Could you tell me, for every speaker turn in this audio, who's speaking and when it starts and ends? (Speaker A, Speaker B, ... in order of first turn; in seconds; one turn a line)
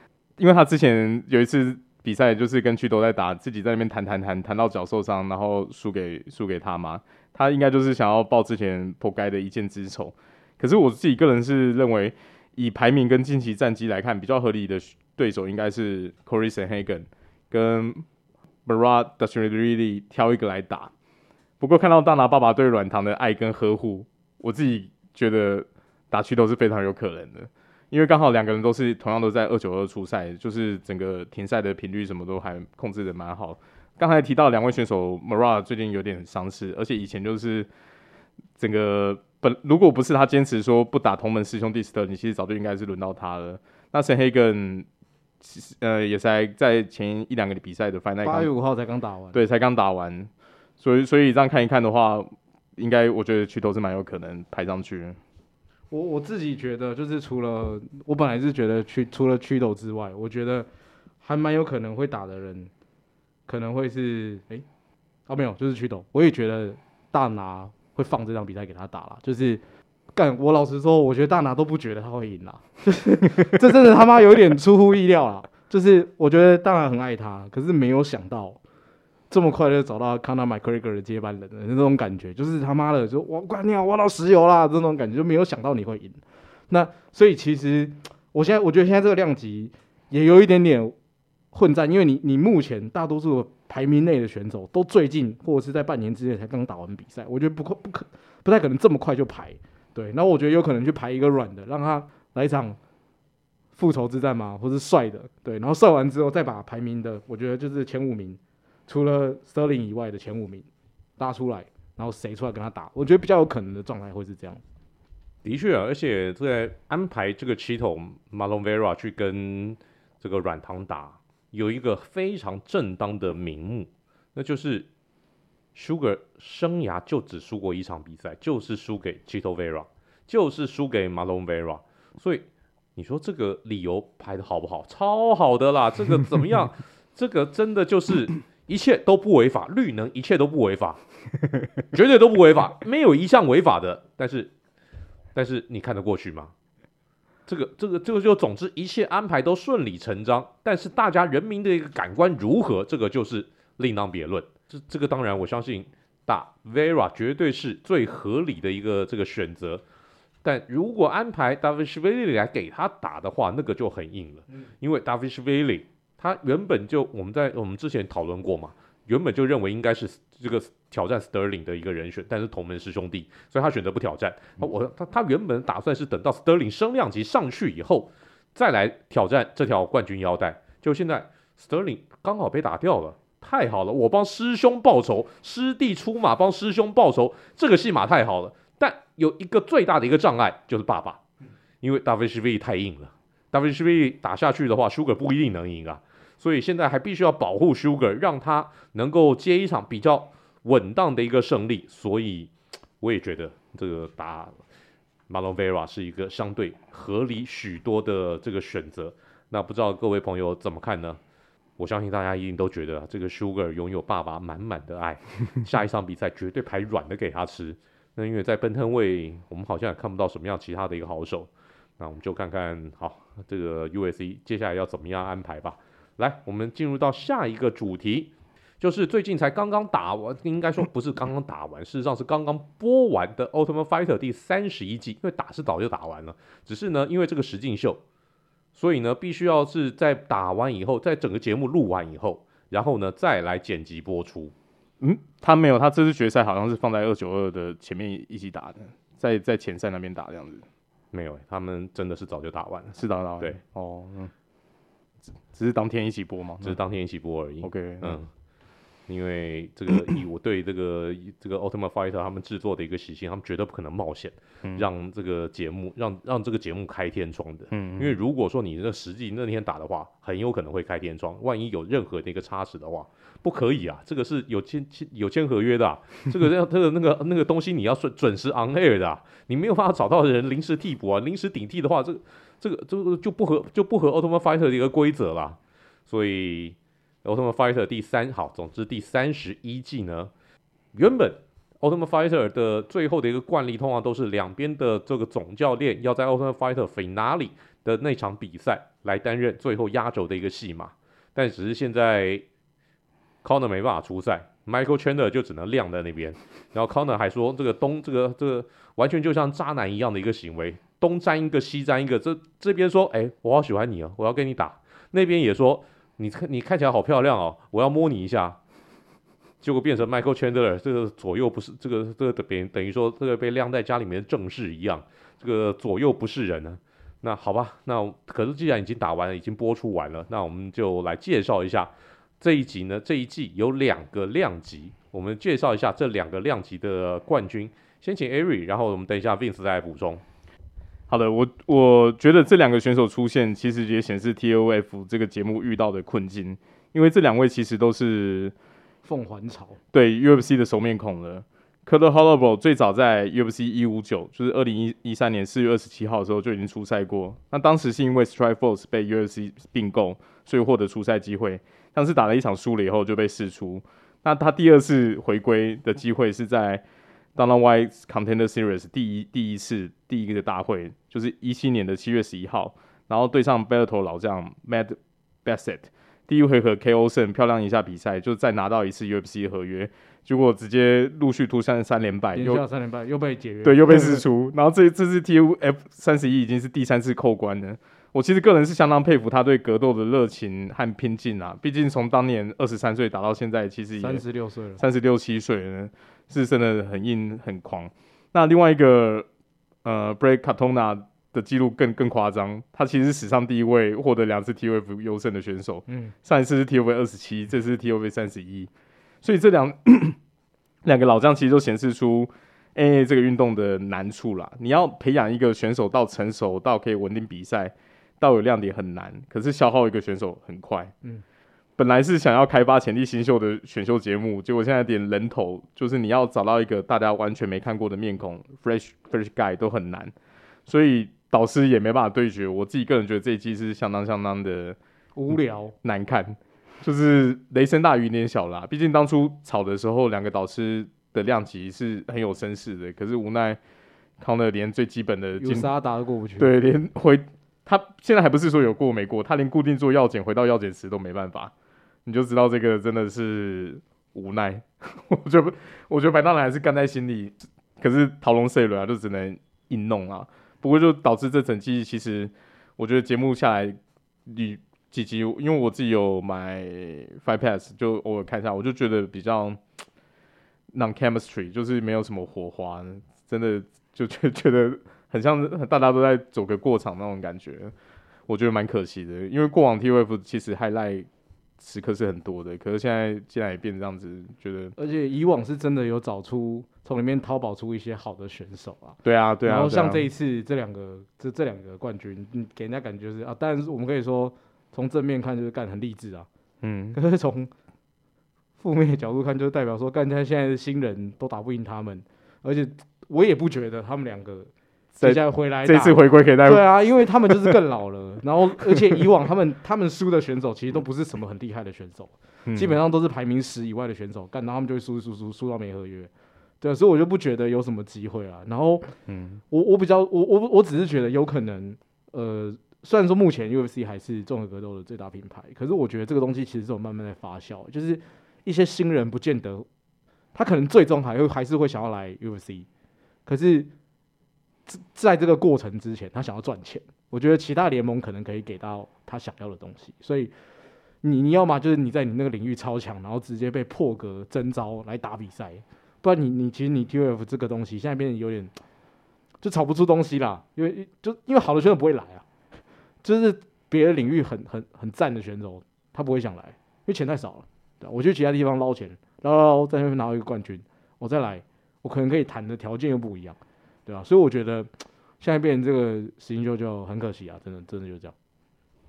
Speaker A: 0.4-18.1
Speaker A: 18.7-20.9
Speaker A: 21.6-37.7
Speaker A: 38.6-44.9
Speaker A: 45.4-48.5
Speaker B: 48.2-49.4
Speaker A: 49.3-55.2
Speaker B: 55.9-60.7
Speaker B: 61.2-62.7
Speaker B: 63.5-64.7
Speaker B: 65.3-69.6
Speaker B: 70.1-78.6
Speaker B: 79.3-91.0
Speaker B: 91.5-102.8
Speaker B: 103.8-114.6
Speaker C: 115.4-124.9
Speaker C: 125.8-141.0
Speaker C: 141.9-144.5
Speaker C: 145.3-146.5
Speaker C: 147.5-159.8
Speaker C: 160.4-191.2
Speaker C: 191.8-204.6
Speaker C: 205.3-211.2
Speaker C: 211.8-238.0
Speaker C: 238.8-244.6
Speaker A: 245.0-250.7
Speaker C: 251.1-253.6
Speaker A: 252.9-254.3
Speaker A: 255.4-256.8
Speaker C: 256.6-258.3
Speaker A: 257.6-258.2
Speaker C: 259.1-290.3
Speaker A: 267.7-268.1
Speaker C: 290.9-302.4
Speaker C: 303.4-318.6
Speaker C: 319.6-340.2
Speaker A: 341.1-348.5
Speaker B: 349.1-349.8
Speaker A: 349.9-366.8
Speaker A: 367.4-382.6
Speaker B: 382.4-384.2
Speaker A: 383.6-394.2
Speaker B: 394.0-394.8
Speaker A: 394.8-399.3
Speaker A: 399.8-408.7
Speaker B: 405.9-406.1
Speaker A: 409.2-410.2
Speaker A: 410.8-420.9
Speaker A: 421.8-430.1
Speaker A: 430.7-434.8
Speaker B: 435.2-435.7
Speaker A: 435.3-443.6
Speaker A: 444.2-445.7
Speaker B: 445.4-446.5
Speaker A: 446.4-451.5
Speaker A: 452.1-469.6
Speaker A: 470.7-477.7
Speaker A: 478.3-481.1
Speaker A: 481.6-484.8
Speaker B: 484.8-496.3
Speaker A: 489.1-490.1
Speaker A: 496.6-497.0
Speaker B: 496.9-497.5
Speaker B: 498.6-518.9
Speaker A: 505.0-507.6
Speaker A: 508.6-509.0
Speaker A: 512.5-512.8
Speaker A: 519.1-519.4
Speaker B: 519.5-529.7
Speaker B: 530.3-532.7
Speaker B: 533.3-533.7
Speaker B: 534.7-540.3
Speaker B: 541.0-548.5
Speaker B: 549.4-552.2
Speaker B: 553.0-564.7
Speaker B: 565.2-568.1